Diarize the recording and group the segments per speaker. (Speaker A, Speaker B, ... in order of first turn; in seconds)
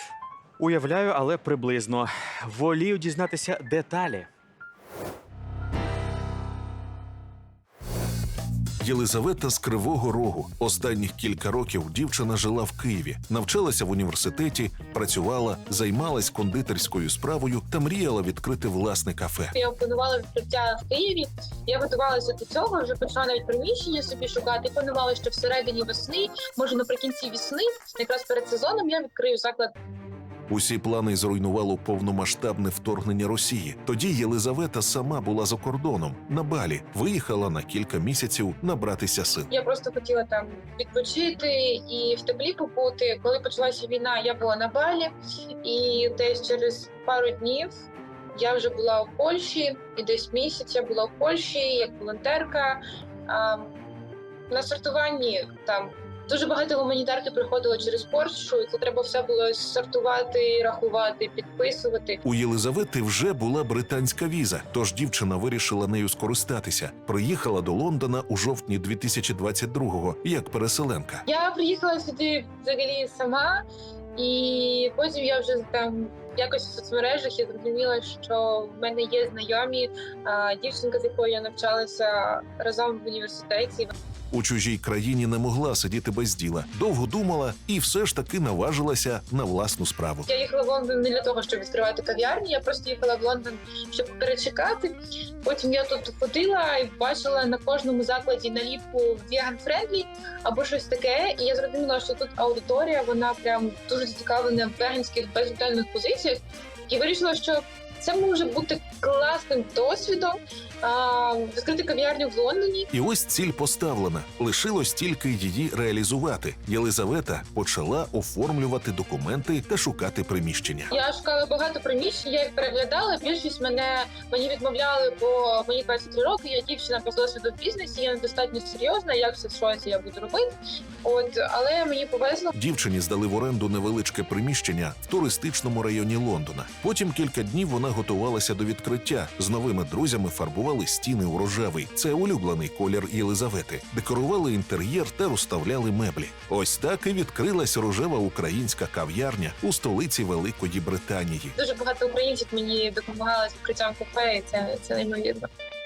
Speaker A: 0.6-4.3
Speaker B: 8.8-19.5, 30.5-39.5, 62.2-71.2, 84.3-90.3, 112.9-120.9, 132.5-151.5
Speaker C: 19.5-29.7, 39.5-47.7, 48.3-53.7, 54.5-62.2, 71.2-73.6, 74.2-83.9, 90.2-112.9, 120.9-132.5, 151.6-155.5